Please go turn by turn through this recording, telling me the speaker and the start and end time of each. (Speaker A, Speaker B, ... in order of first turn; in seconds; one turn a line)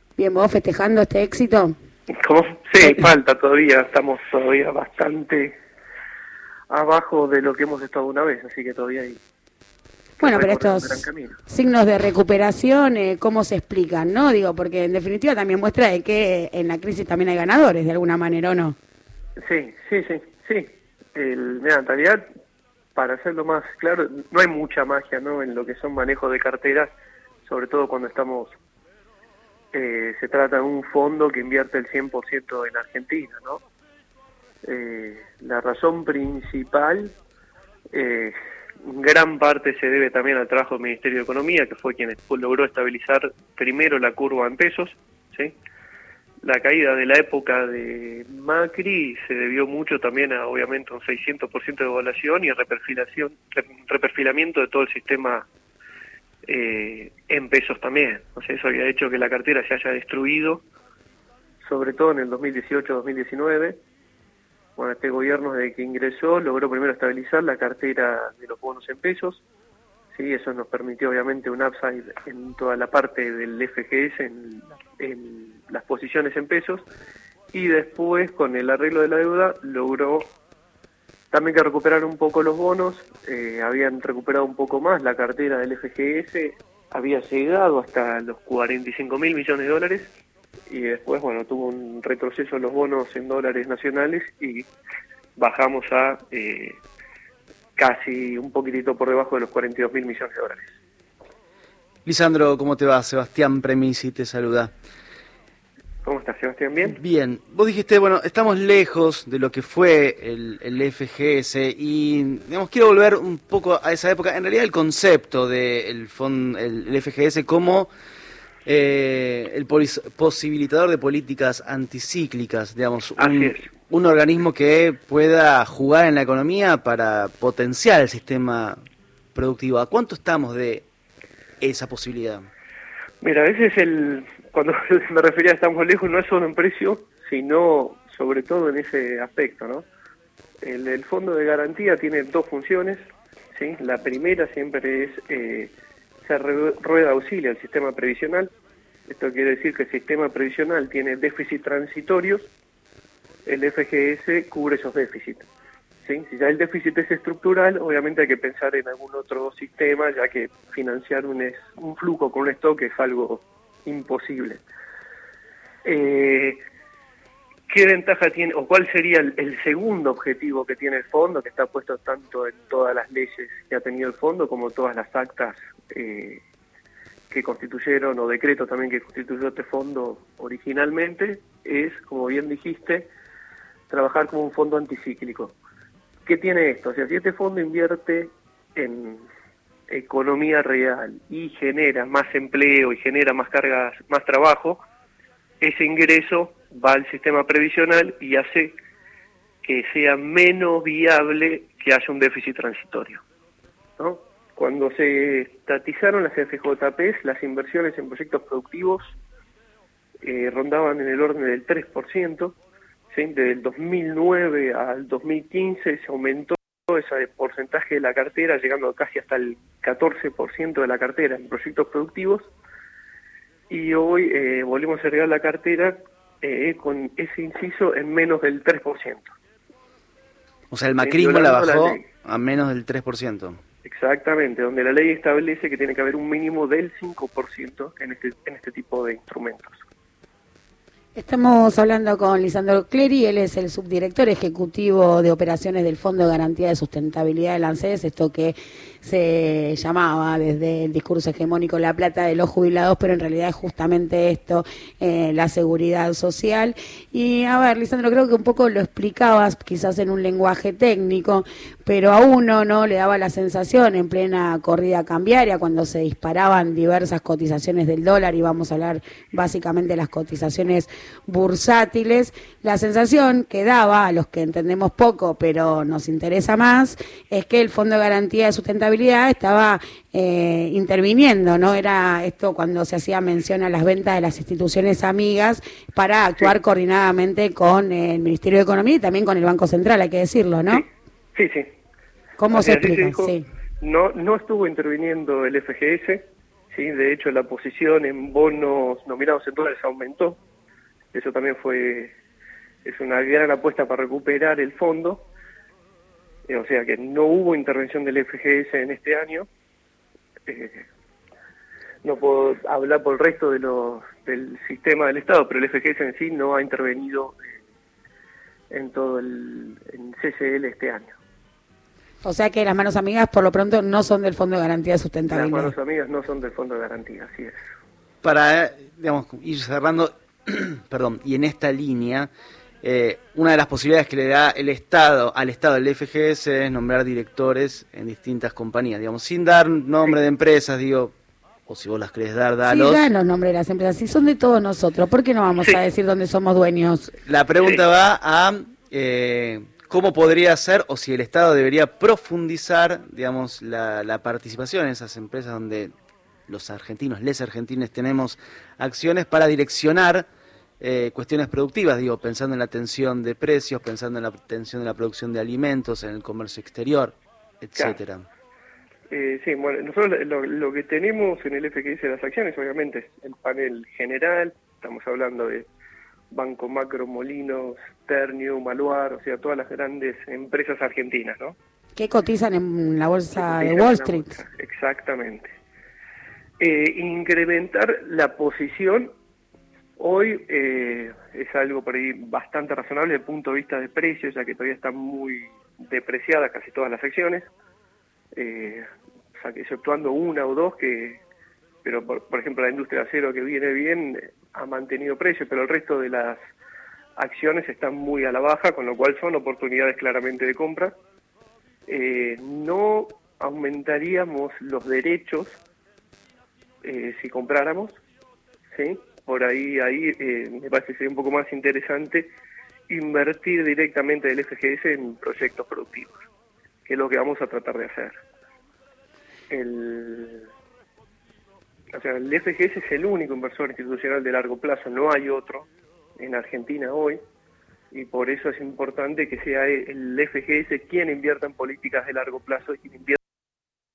Speaker A: 0.2-1.8
Speaker B: 2.2-5.6
Speaker B: 6.7-9.2
Speaker B: 10.2-11.4
Speaker A: 10.2-18.8
Speaker B: 19.4-22.2
Speaker B: 22.9-26.9
Speaker B: 27.4-28.6
Speaker B: 29.7-33.6
Speaker B: 34.6-37.1
Speaker B: 37.9-45.5
Speaker B: 46.4-55.5
Speaker B: 56.5-60.6
Speaker B: 61.6-63.8
Speaker B: 64.8-69.4
Speaker B: 70.1-76.8
Speaker B: 77.5-80.3
Speaker B: 81.3-90.1
Speaker B: 90.7-94.7
Speaker B: 95.4-96.8
Speaker B: 97.8-100.7
Speaker C: 102.0-104.7
Speaker B: 106.0-107.0
Speaker C: 107.0-117.9
Speaker C: 118.7-128.8
Speaker B: 123.2-123.7
Speaker C: 129.3-130.8
Speaker C: 131.6-132.4
Speaker B: 133.2-139.9
Speaker B: 140.6-148.5
Speaker B: 149.1-152.5
Speaker B: 153.4-155.5
Speaker B: 156.0-164.6
Speaker B: 165.8-166.6
Speaker B: 167.7-176.4
Speaker B: 177.3-183.1
Speaker B: 183.9-185.5
Speaker B: 186.2-189.2
Speaker B: 189.9-194.8
Speaker B: 195.6-198.8
Speaker B: 199.6-203.2
Speaker B: 204.0-209.2
Speaker B: 210.2-212.6
Speaker B: 213.1-222.5
Speaker B: 223.7-229.3
Speaker C: 230.7-233.6
Speaker B: 231.0-232.1
Speaker B: 233.8-239.8
Speaker A: 241.2-290.8
Speaker B: 290.7-291.7
Speaker A: 292.4-293.4
Speaker B: 292.5-300.4
Speaker B: 301.1-302.1
Speaker B: 302.8-305.2
Speaker B: 306.5-309.5
Speaker B: 310.5-310.9
Speaker B: 312.0-317.5
Speaker B: 318.7-321.2
Speaker A: 322.2-325.7
Speaker B: 325.3-327.6
Speaker C: 328.2-332.3
Speaker C: 332.8-341.1
Speaker C: 341.7-343.1
Speaker A: 342.6-347.1
Speaker C: 347.2-355.9
Speaker C: 356.5-360.3
Speaker C: 360.8-368.2
Speaker B: 369.1-375.7
Speaker B: 376.3-381.6
Speaker A: 381.9-384.3
Speaker B: 383.3-385.5
Speaker B: 386.6-389.1
Speaker B: 390.0-397.5
Speaker B: 398.3-398.8
Speaker B: 399.4-401.2
Speaker B: 401.8-406.4
Speaker B: 407.1-410.9
Speaker B: 411.9-415.6
Speaker B: 416.8-417.9
Speaker B: 418.7-422.3
Speaker B: 422.9-426.2
Speaker B: 426.9-428.1
Speaker B: 429.5-430.5
Speaker B: 431.9-437.2
Speaker B: 437.9-443.2